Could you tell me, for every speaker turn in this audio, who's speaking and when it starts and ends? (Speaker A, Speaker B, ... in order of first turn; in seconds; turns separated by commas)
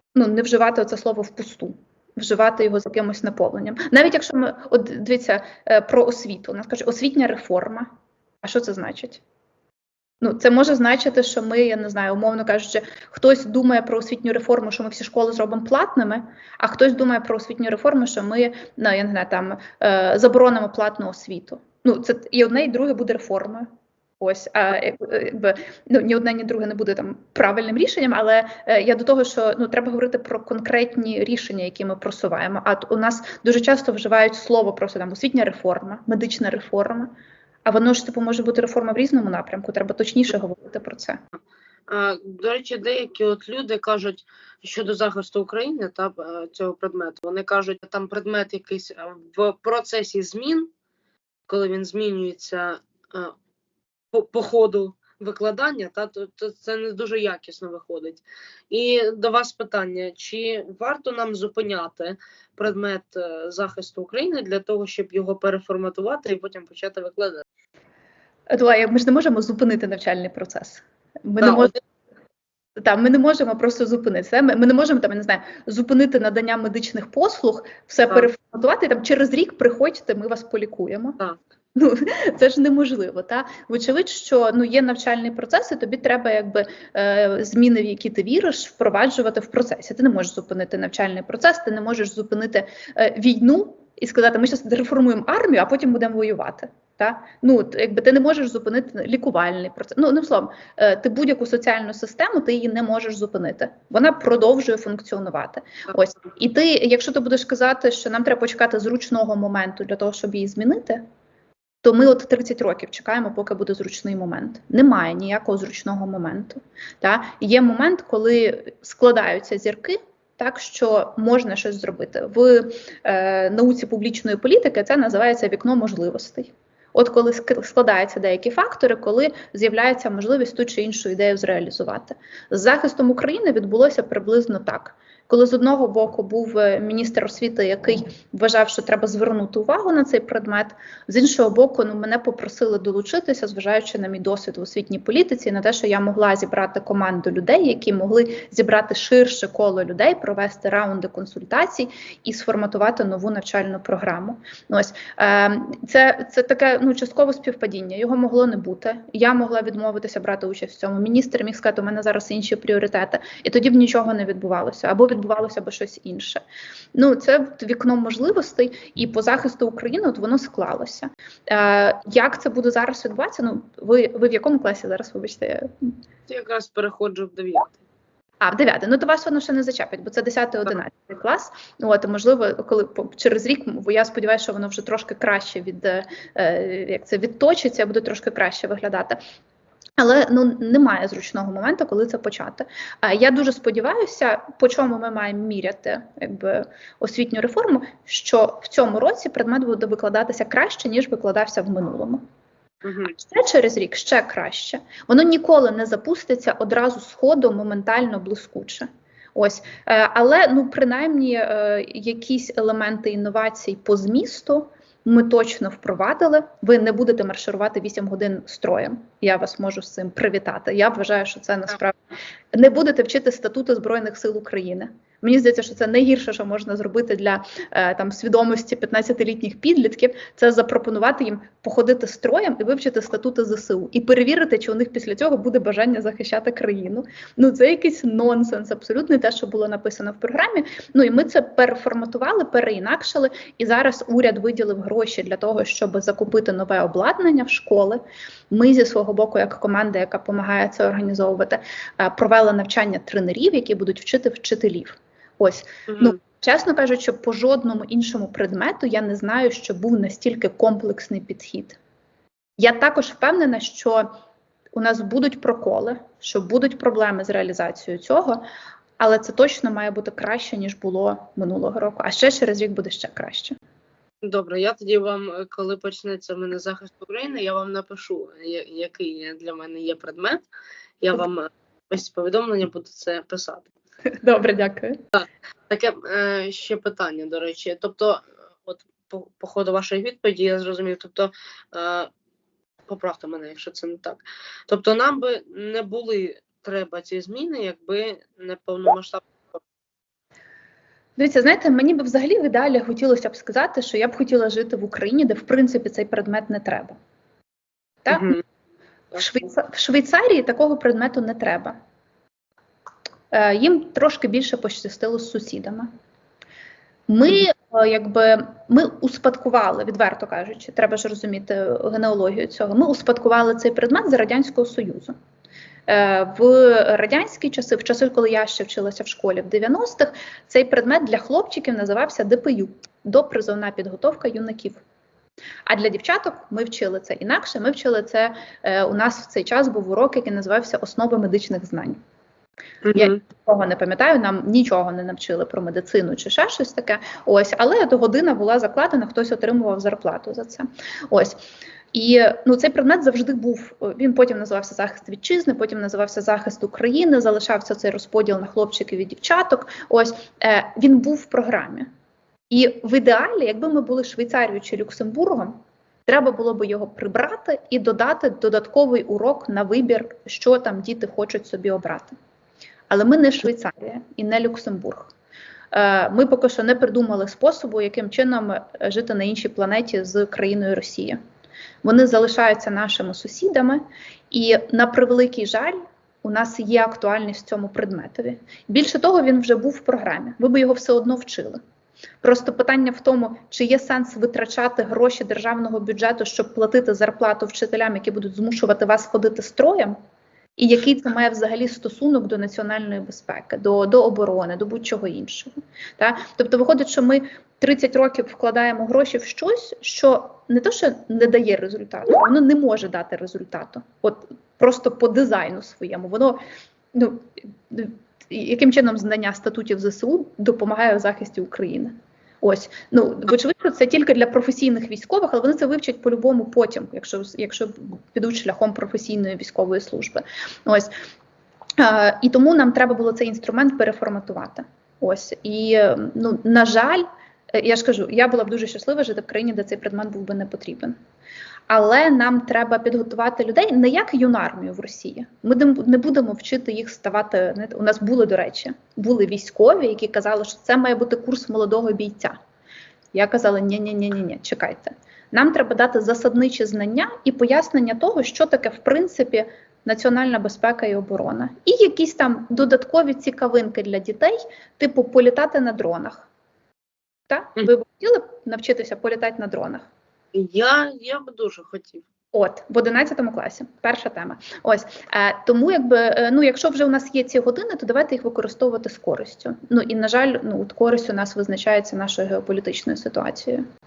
Speaker A: 0.1-7.9, Speaker A: 8.4-9.2, Speaker A: 10.2-23.7, Speaker A: 24.2-37.1, Speaker A: 37.6-41.2, Speaker B: 41.9-50.7, Speaker B: 51.5-53.4, Speaker B: 54.1-67.4, Speaker A: 68.5-71.8, Speaker B: 71.4-71.7, Speaker A: 72.8-81.2, Speaker A: 81.8-111.0, Speaker A: 111.8-166.4, Speaker A: 166.9-175.9, Speaker B: 176.3-177.8, Speaker A: 178.4-189.2, Speaker A: 190.0-202.2, Speaker B: 202.8-203.1, Speaker A: 203.1-222.0, Speaker A: 222.5-261.8, Speaker A: 262.6-264.1, Speaker A: 264.7-268.4, Speaker A: 269.0-273.6, Speaker B: 274.2-280.4, Speaker B: 281.0-283.7, Speaker A: 284.2-285.0, Speaker B: 285.7-292.1, Speaker B: 292.9-299.6, Speaker A: 301.2-307.0, Speaker A: 308.1-308.4, Speaker B: 308.1-308.4, Speaker A: 309.1-311.8, Speaker A: 313.3-315.9, Speaker A: 317.1-325.1, Speaker A: 325.9-334.8, Speaker A: 335.7-342.0, Speaker B: 342.8-343.2, Speaker A: 342.9-351.4, Speaker A: 351.9-361.9, Speaker A: 362.5-372.2, Speaker A: 372.9-375.1, Speaker A: 375.7-381.2, Speaker A: 381.8-391.6, Speaker A: 392.2-400.0, Speaker A: 400.6-416.4, Speaker A: 416.9-430.9, Speaker A: 431.8-441.0, Speaker A: 441.7-452.4, Speaker A: 453.1-466.3, Speaker A: 467.3-469.9, Speaker B: 470.3-472.1, Speaker A: 472.3-483.6